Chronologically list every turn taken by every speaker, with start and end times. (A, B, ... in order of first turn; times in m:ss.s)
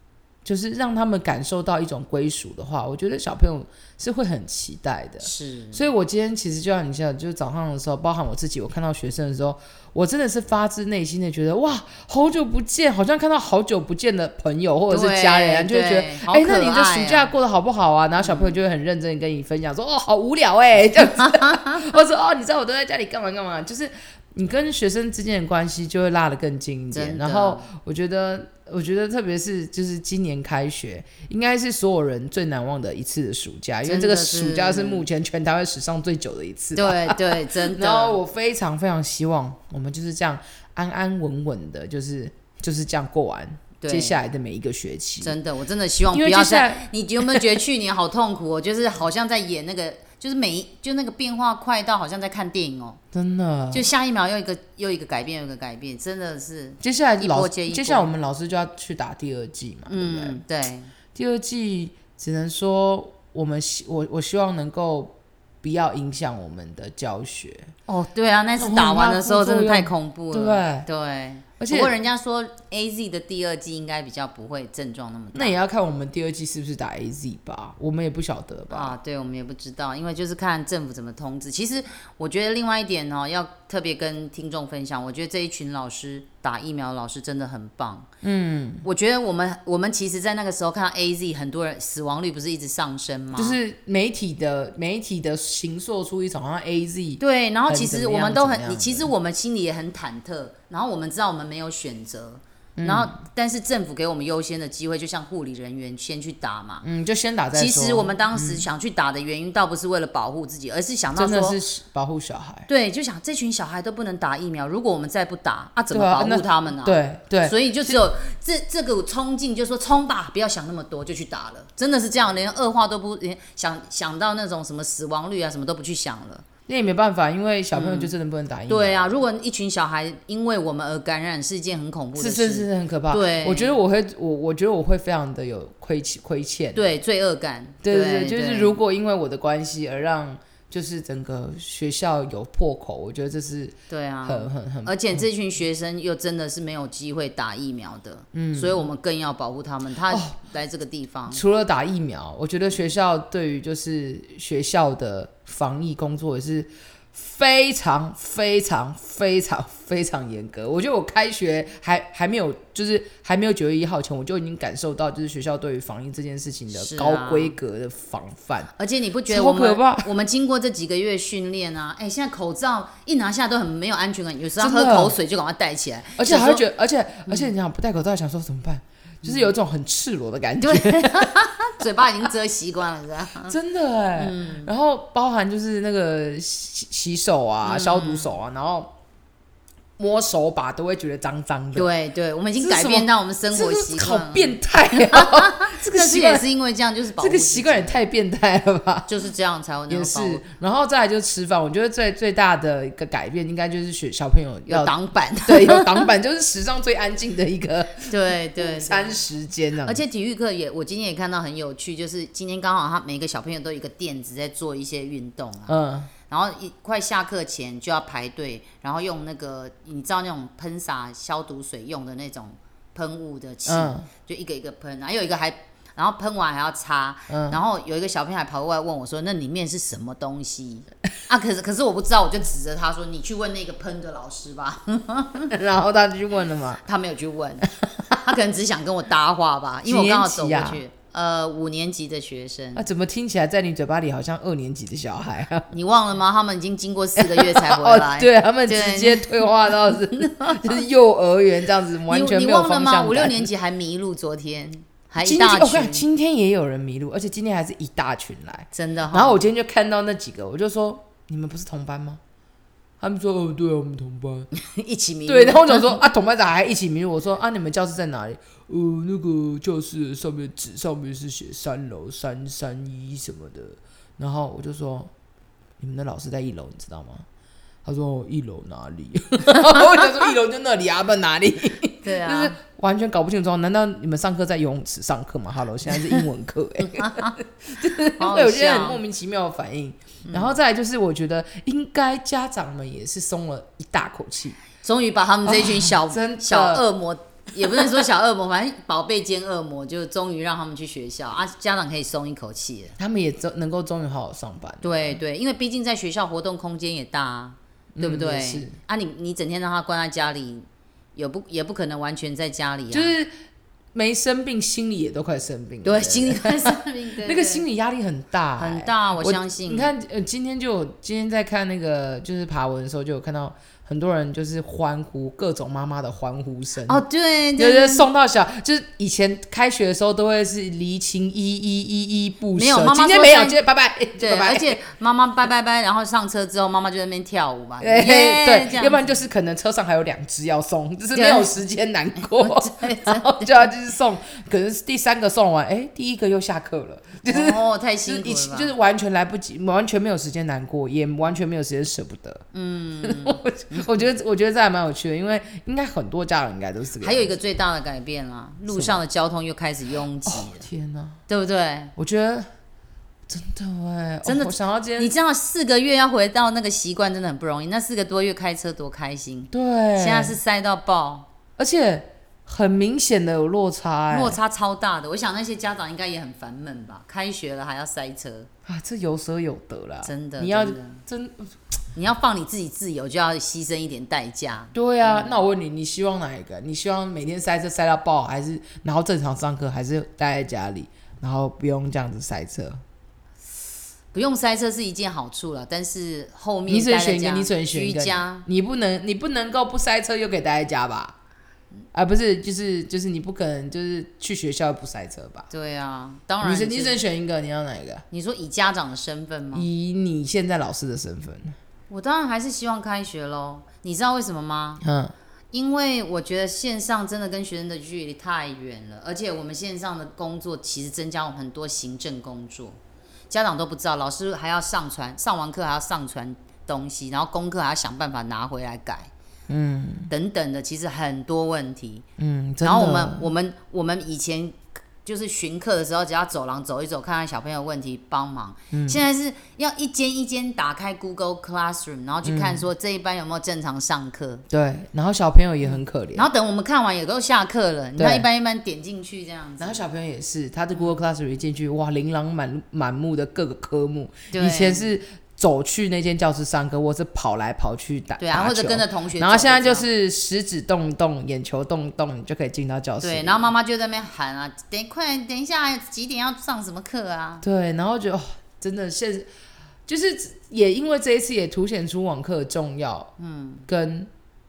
0:00.4-0:45.4 A
0:05.2-0:05.9 B
0:14.9-0:17.3 B
0:18.2-0:18.6 B
0:26.9-0:27.7 B
0:33.8-0:35.1 B
0:36.8-0:38.2 B
0:43.8-0:44.2 B
0:45.2-0:53.0 B
0:46.1-0:47.6 A
0:53.1-0:53.9 A
0:53.7-0:58.1 B
0:56.8-1:00.4 A
0:59.9-1:00.9 B
1:01.2-1:07.7 A
1:07.9-1:15.6 B
1:08.6-1:10.9 A
1:11.6-1:12.0 A
1:15.3-1:19.0 A
1:18.7-1:28.1 B
1:28.2-1:28.9 A
1:28.8-1:33.6 B
1:33.4-1:39.1 A
1:37.2-1:46.9 B
1:42.8-1:43.2 A
1:46.8-1:48.7 A
1:47.5-1:51.6 B
1:51.2-1:52.7 A
1:52.7-2:06.4 B
1:55.9-1:58.0 A
2:06.7-2:09.2 A
2:07.7-2:08.1 B
2:08.7-2:13.8 B
2:12.2-2:17.0 A
2:16.8-2:18.8 B
2:17.8-2:25.2 A
2:23.9-2:31.4 B
2:28.3-2:28.9 A
2:30.1-2:30.4 A
2:31.3-2:48.7 A
2:46.7-2:47.5 B
2:48.8-2:56.6 B
2:49.3-2:50.1 A
2:54.6-2:55.2 A
2:56.2-3:01.5 A
3:00.6-3:03.5 B
3:03.5-3:08.9 A
3:04.2-3:04.7 B
3:07.6-3:08.4 B
3:10.0-3:11.9 A
3:11.8-3:18.0 B
3:12.6-3:16.5 A
3:17.2-3:19.1 A
3:19.1-3:20.4 B
3:19.9-3:30.0 A
3:24.7-3:26.1 B
3:28.1-3:29.2 B
3:29.8-3:35.8 B
3:35.7-3:36.1 A
3:36.3-3:55.5 B
3:43.7-3:44.1 A
3:47.3-3:47.6 A
3:55.5-3:56.8 A
3:56.8-4:02.9 B
3:59.9-4:00.8 A
4:02.8-4:05.7 A
4:05.7-4:10.8 B
4:07.2-4:13.5 A
4:12.1-4:16.1 B
4:15.2-4:22.2 A
4:18.7-4:19.5 B
4:23.0-4:24.5 A
4:24.5-4:26.0 B
4:25.3-4:35.1 A
4:35.8-4:37.3 A
4:37.8-4:54.6 A
4:42.0-4:42.6 B
4:46.8-4:47.4 B
4:48.2-4:49.0 B
4:50.2-4:50.6 B
4:54.8-5:02.9 B
4:55.4-4:56.8 A
5:03.0-5:05.2 A
5:04.8-5:13.2 B
5:08.0-5:08.8 A
5:12.9-5:13.3 A
5:13.9-5:27.0 A
5:15.8-5:17.6 B
5:18.6-5:19.9 B
5:26.9-5:28.1 B
5:27.6-5:34.8 A
5:32.5-5:33.6 B
5:34.2-5:39.2 B
5:37.8-5:52.4 A
5:41.1-5:41.5 B
5:42.4-5:43.7 B
5:47.3-5:48.7 B
5:52.5-5:54.1 B
5:53.0-5:57.3 A
5:57.0-6:00.7 B
5:58.7-5:59.0 A
6:00.3-6:01.2 A
6:01.3-6:01.9 B
6:02.0-6:02.5 A
6:03.3-6:05.1 A
6:04.2-6:11.3 B
6:09.5-6:10.4 A
6:11.6-6:14.4 A
6:14.1-6:18.5 B
6:18.7-6:21.5 A
6:20.0-6:21.0 B
6:22.0-6:25.5 B
6:24.7-6:32.8 A
6:34.1-6:38.5 B
6:36.7-6:41.2 A
6:41.9-6:45.5 A
6:45.5-6:47.0 B
6:46.4-6:48.0 A
6:48.1-6:49.7 B
6:49.5-6:51.6 A
6:51.9-6:54.8 B
6:54.8-6:55.1 A
6:55.5-7:02.8 B
7:03.3-7:09.1 B
7:09.5-7:10.1 A
7:10.1-7:12.0 B
7:12.2-7:13.3 A
7:12.6-7:24.4 B
7:18.7-7:19.0 A
7:22.2-7:22.7 A
7:24.5-7:26.3 A
7:25.6-7:29.8 B
7:28.0-7:28.3 A
7:29.6-7:43.5 A
7:34.3-7:34.9 B
7:38.2-7:39.9 B
7:43.0-7:47.4 B
7:47.4-7:49.3 A
7:49.9-7:53.1 A
7:53.2-7:53.6 B
7:53.7-7:54.1 A